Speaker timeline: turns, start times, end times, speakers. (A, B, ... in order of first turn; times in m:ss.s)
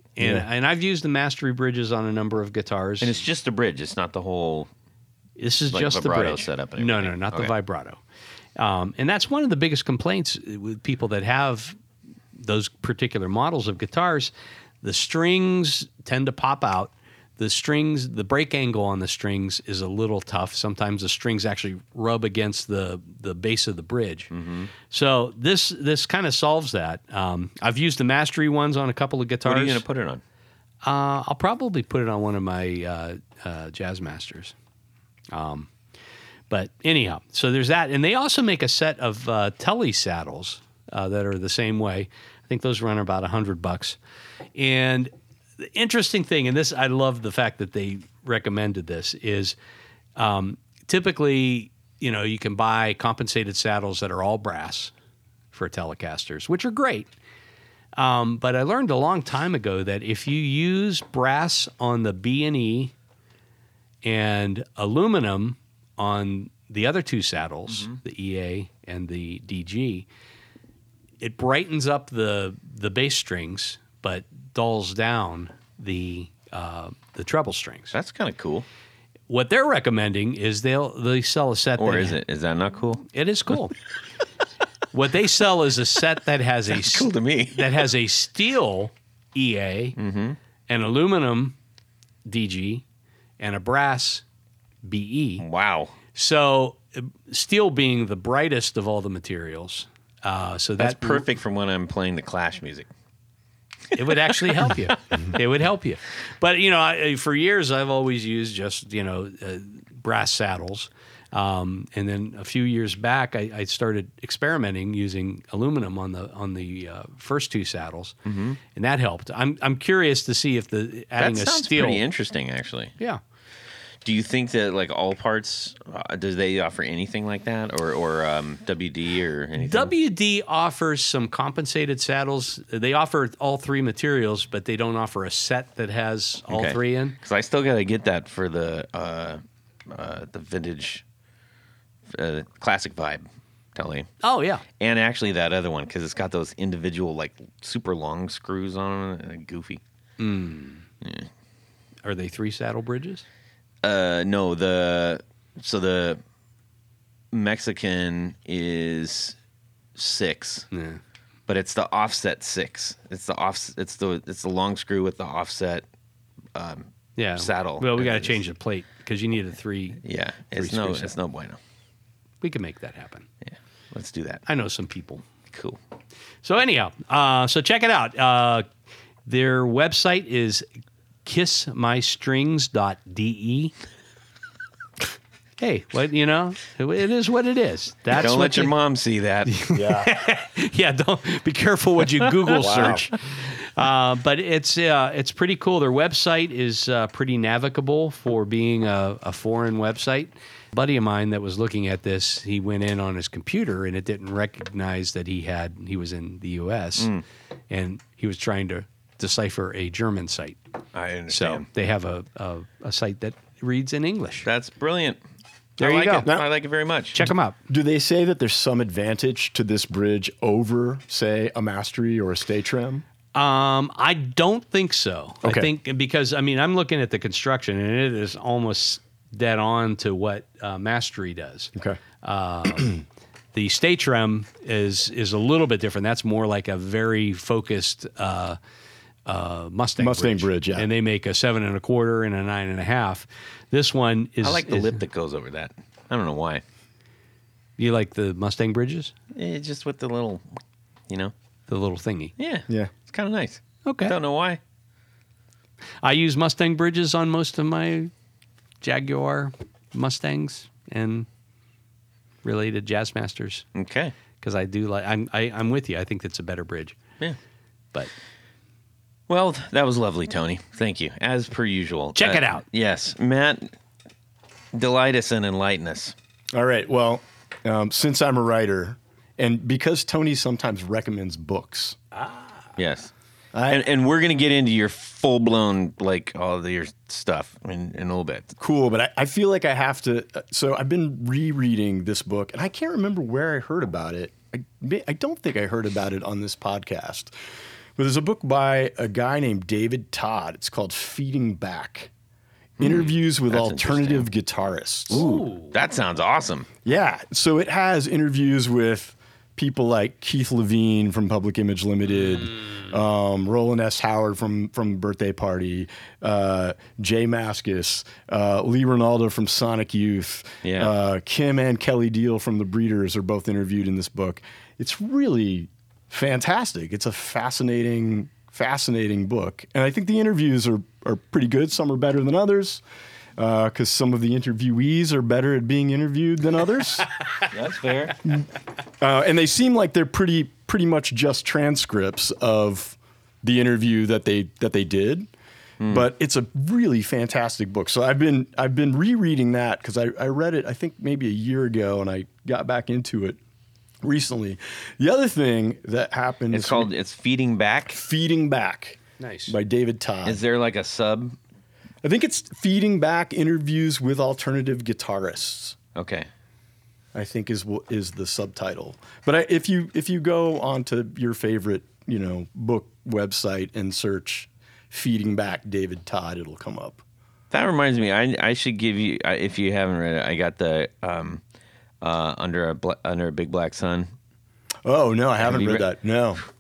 0:00.2-0:03.2 A
0:00.2-0:00.5 B
0:03.0-0:04.7 C
0:05.4-0:08.0 A
0:05.7-0:07.5 C
0:08.6-0:11.8 A
0:12.4-0:14.3 A
0:14.8-0:24.3 A
0:24.3-0:24.7 C
0:24.9-0:29.8 A
0:29.4-0:30.2 C
0:30.8-0:34.5 A
0:35.3-0:35.7 A
0:36.5-0:44.0 A
0:44.6-0:49.6 A
0:50.2-0:54.9 A
0:55.5-0:57.1 A
0:58.0-1:02.9 A
1:04.0-1:10.1 A
1:07.7-1:08.0 C
1:11.2-1:17.9 A
1:17.9-1:18.7 C
1:19.3-1:22.2 A
1:21.8-1:23.1 C
1:23.1-1:23.8 A
1:24.9-1:30.0 A
1:26.7-1:27.7 C
1:30.0-1:30.4 C
1:30.7-1:31.6 A
1:32.3-1:32.8 A
1:33.4-1:34.2 A
1:34.8-1:35.4 A
1:35.4-1:36.0 C
1:36.1-1:41.3 A
1:40.8-1:42.9 C
1:43.9-1:58.2 A
1:44.6-1:44.9 C
1:58.3-1:58.6 C
1:58.7-2:02.0 A
2:01.2-2:02.9 C
2:04.0-2:09.9 C
2:09.6-2:17.2 A
2:16.5-2:21.0 C
2:22.1-2:24.1 C
2:24.2-2:24.6 A
2:24.8-2:29.8 C
2:30.2-2:30.8 A
2:31.0-2:31.3 C
2:32.0-2:33.2 A
2:33.8-2:36.2 C
2:37.3-2:39.4 C
2:40.0-2:40.7 C
2:40.7-2:41.0 A
2:41.5-2:45.8 C
2:46.6-2:48.4 C
2:47.2-2:51.1 A
2:50.0-2:51.6 C
2:52.4-2:53.3 A
2:53.5-2:54.4 C
2:54.5-2:55.2 A
2:55.5-2:55.8 C
2:56.4-2:58.7 A
2:59.3-3:00.7 A
3:01.2-3:03.7 A
3:05.6-3:08.7 A
3:08.1-3:09.7 C
3:09.5-3:27.1 A
3:09.7-3:10.1 B
3:12.6-3:13.0 C
3:12.6-3:13.1 B
3:27.0-3:27.2 C
3:27.7-3:30.6 A
3:30.9-3:31.6 C
3:31.3-3:34.5 A
3:34.4-3:35.2 C
3:35.8-3:36.3 A
3:35.8-3:37.3 C
3:37.1-3:37.6 A
3:37.7-3:43.0 B
3:43.3-3:53.0 A
3:45.4-3:45.7 B
3:53.5-3:58.6 A
3:59.3-4:05.0 A
4:00.0-4:00.9 B
4:04.4-4:06.6 C
4:07.8-4:09.1 A
4:09.3-4:10.4 C
4:11.7-4:12.3 A
4:12.4-4:14.6 C
4:13.9-4:14.1 A
4:16.0-4:18.1 A
4:18.8-4:21.3 A
4:22.4-4:23.6 A
4:23.8-4:24.1 C
4:24.4-4:27.0 A
4:29.3-4:33.7 C
4:32.2-4:32.6 A
4:34.7-4:36.2 C
4:36.5-4:42.0 B
4:42.8-4:43.1 C
4:43.5-4:43.8 B
4:43.7-4:48.5 C
4:48.6-4:57.3 B
4:58.0-5:02.1 B
5:02.8-5:04.3 C
5:02.8-5:05.2 B
5:05.1-5:06.7 C
5:05.1-5:05.7 A
5:06.8-5:32.8 B
5:20.6-5:20.9 C
5:33.4-5:37.1 B
5:37.5-5:38.2 C
5:39.0-5:45.3 B
5:45.8-5:46.1 C
5:45.9-5:53.4 B
5:54.0-5:56.9 B
5:56.5-5:58.0 C
5:57.9-6:00.4 B
5:59.2-5:59.6 A
6:00.2-6:01.4 C
6:02.0-6:05.8 B
6:06.0-6:06.3 C
6:07.1-6:17.0 B
6:17.5-6:21.4 C
6:22.0-6:24.1 C
6:24.8-6:26.4 B
6:25.4-6:25.9 C